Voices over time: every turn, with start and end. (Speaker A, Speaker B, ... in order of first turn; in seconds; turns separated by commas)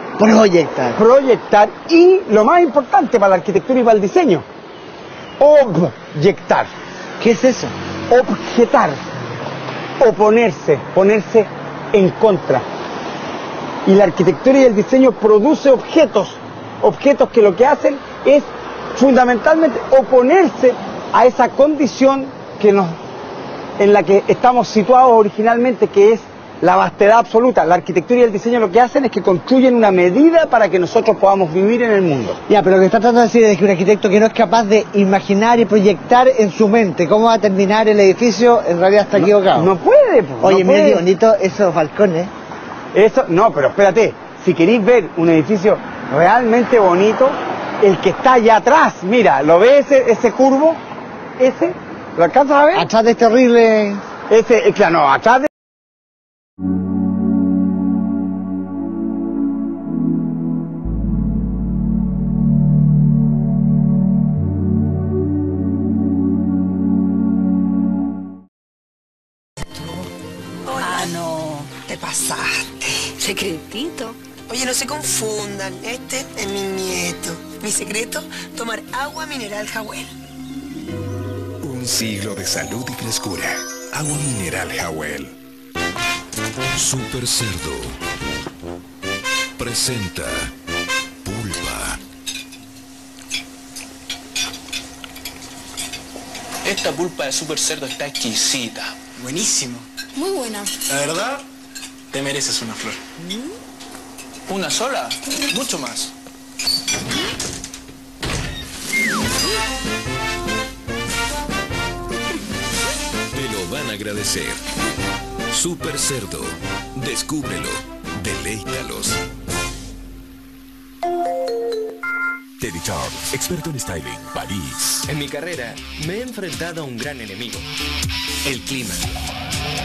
Speaker A: 0.2-1.0, Speaker B: 1.0-4.5, Speaker B: 5.4-6.7, Speaker A: 7.2-7.7, Speaker B: 8.1-9.0, Speaker B: 10.0-12.7, Speaker B: 13.8-23.0, Speaker B: 23.8-32.4, Speaker A: 32.5-39.8, Speaker B: 39.1-41.0, Speaker A: 40.4-42.3, Speaker B: 42.9-50.8, Speaker B: 51.4-52.9, Speaker A: 52.8-54.0, Speaker B: 54.3-55.5, Speaker C: 70.7-71.1, Speaker D: 70.8-71.7, Speaker C: 71.8-73.2, Speaker D: 73.2-74.1, Speaker C: 74.4-80.1, Speaker E: 86.8-88.0, Speaker E: 89.6-90.5, Speaker E: 91.3-92.0, Speaker F: 96.7-99.8, Speaker D: 100.2-100.8, Speaker F: 100.8-101.4, Speaker F: 102.1-103.0, Speaker F: 104.5-106.1, Speaker E: 113.3-114.6, Speaker E: 115.5-119.2, Speaker E: 122.7-124.8, Speaker G: 125.1-127.7, Speaker G: 128.4-129.0